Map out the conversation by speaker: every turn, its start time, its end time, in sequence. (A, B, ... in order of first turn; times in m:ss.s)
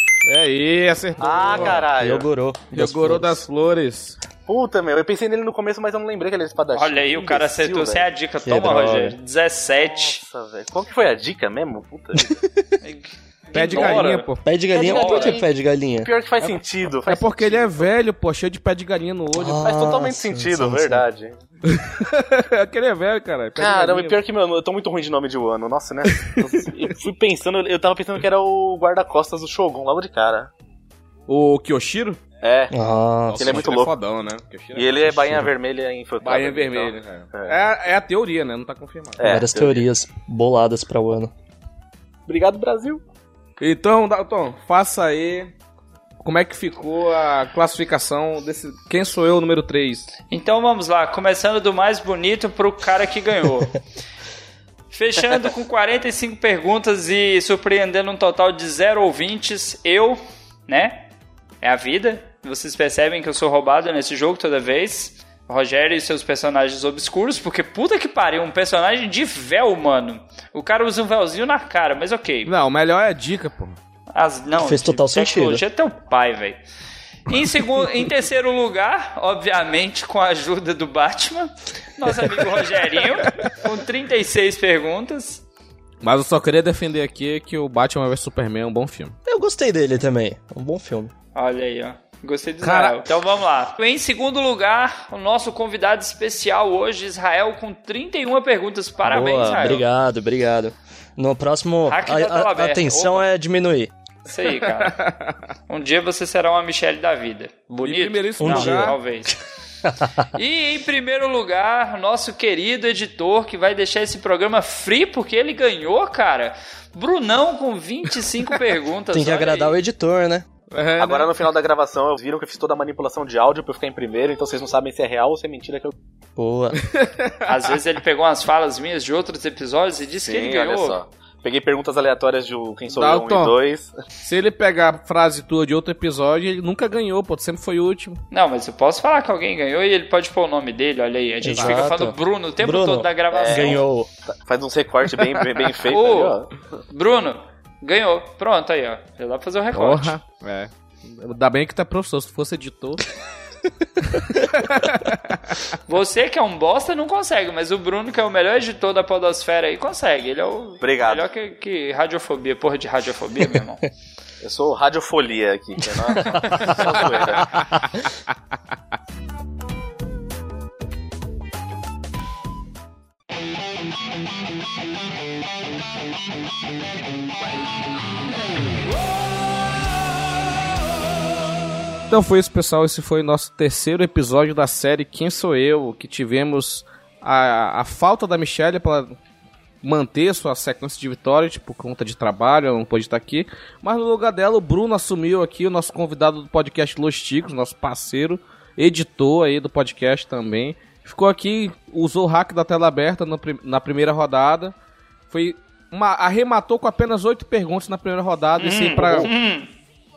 0:00.2-0:01.9 A
0:01.2-0:02.3 B
0:01.4-0:03.4 C
0:02.7-0:04.2 A
0:04.5-0:08.1 B
0:06.7-0:10.2 D
0:08.4-0:09.2 C
0:09.8-0:12.3 B
0:12.1-0:12.6 C
0:12.8-0:15.4 D
0:13.5-0:14.4 A
0:13.7-0:14.2 B
0:14.4-0:16.1 C
0:14.7-0:15.5 B
0:16.0-0:17.9 B
0:16.4-0:19.6 A
0:19.3-0:21.0 C
0:19.5-0:21.4 B
0:21.7-0:24.2 A
0:23.6-0:30.5 B
0:26.2-0:26.7 A
0:31.3-0:32.2 A
0:32.4-0:32.7 B
0:32.7-0:33.7 C
0:33.3-0:35.5 A
0:33.4-0:33.9 B
0:34.8-0:37.6 B
0:36.2-0:39.2 A
0:39.2-0:39.8 B
0:39.2-0:41.3 C
0:42.3-0:43.0 B
0:43.6-0:45.5 A
0:46.2-0:50.1 A
0:50.3-0:53.8 D
0:54.9-1:12.5 D
1:12.4-1:13.8 A
1:14.1-1:16.6 D
1:14.6-1:15.6 C
1:17.3-1:25.4 D
1:26.0-1:29.1 A
1:29.2-1:31.1 C
1:31.3-1:39.8 D
1:32.6-1:33.1 A
1:39.0-1:43.9 C
1:41.9-1:43.2 D
1:44.3-1:45.0 D
1:44.4-1:45.4 A
1:45.7-1:49.4 D
1:47.8-1:49.0 A
1:48.4-1:49.0 C
1:49.8-1:50.1 C
1:50.2-1:59.8 D
1:59.1-2:00.4 C
2:00.7-2:01.3 A
2:01.0-2:05.9 B
2:06.4-2:06.8 C
2:06.8-2:07.5 A
2:07.4-2:11.0 D
2:10.1-2:13.9 B
2:12.9-2:13.5 A
2:14.2-2:18.2 A
2:18.3-2:23.8 D
2:21.4-2:24.1 C
2:21.5-2:22.0 A
2:23.3-2:26.6 B
2:25.4-2:25.6 A
2:25.9-2:26.4 D
2:26.9-2:30.2 D
2:29.7-2:33.0 A
2:34.0-2:35.5 A
2:35.9-2:43.8 D
2:40.8-2:41.3 B
2:44.4-2:47.6 B
2:46.3-2:46.7 C
2:46.8-2:47.6 A
3:02.1-3:09.1 A
3:09.8-3:24.7 A
3:25.3-3:29.3 A
3:28.6-3:29.7 D